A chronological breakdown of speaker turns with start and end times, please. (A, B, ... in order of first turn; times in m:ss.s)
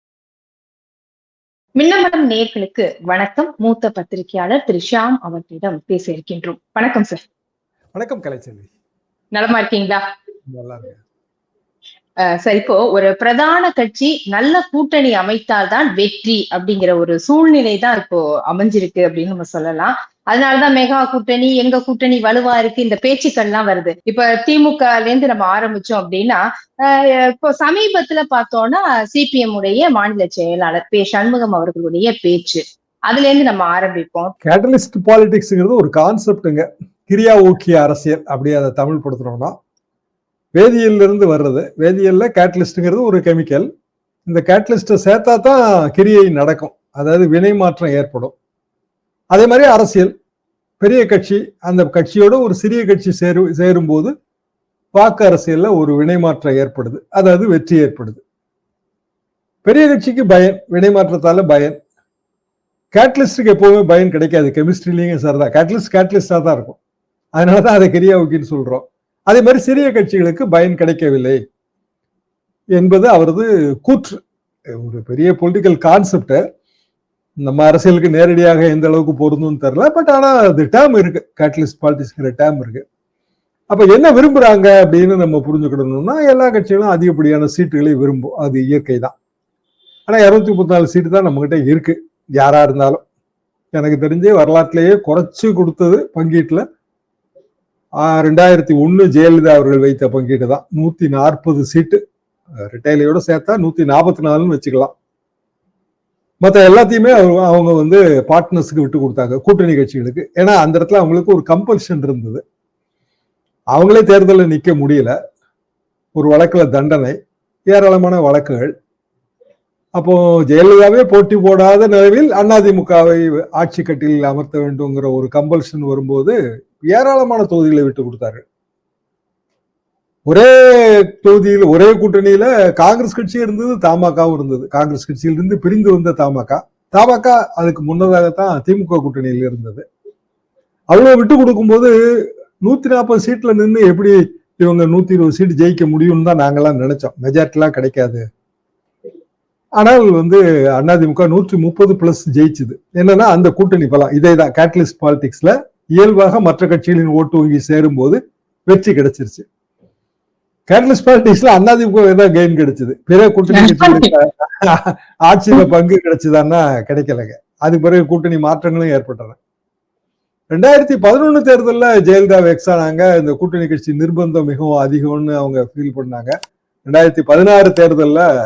0:01.8-0:07.2 A
0:07.9-0:08.7 B
0:09.3-0:10.0 A
0:10.5-0:11.0 B
0:12.2-0:34.3 A
0:34.4-0:39.5 B
0:40.5-0:43.7 B
0:44.2-0:48.3 B
0:49.3-0:50.1 B
0:50.8-0:54.1 B
0:54.9-0:58.2 B
0:59.6-1:01.8 B
1:02.9-1:06.8 B
1:07.3-1:11.4 B
1:12.8-1:14.2 B
1:14.8-1:16.4 B
1:17.4-1:22.8 B
1:23.7-1:29.1 B
1:30.1-1:33.0 B
1:33.7-1:36.6 B
1:38.0-1:42.0 B
1:42.6-1:44.9 B
1:46.4-1:52.4 B
1:53.7-1:55.1 B
1:56.2-1:57.2 B
1:57.7-1:58.7 B
2:00.0-2:08.4 B
2:10.3-2:19.8 B
2:20.9-2:21.9 B
2:22.6-2:28.2 B
2:29.8-2:39.4 B
2:40.7-2:49.4 B
2:43.6-2:44.1 A
2:50.5-2:56.3 B
2:56.9-2:58.2 B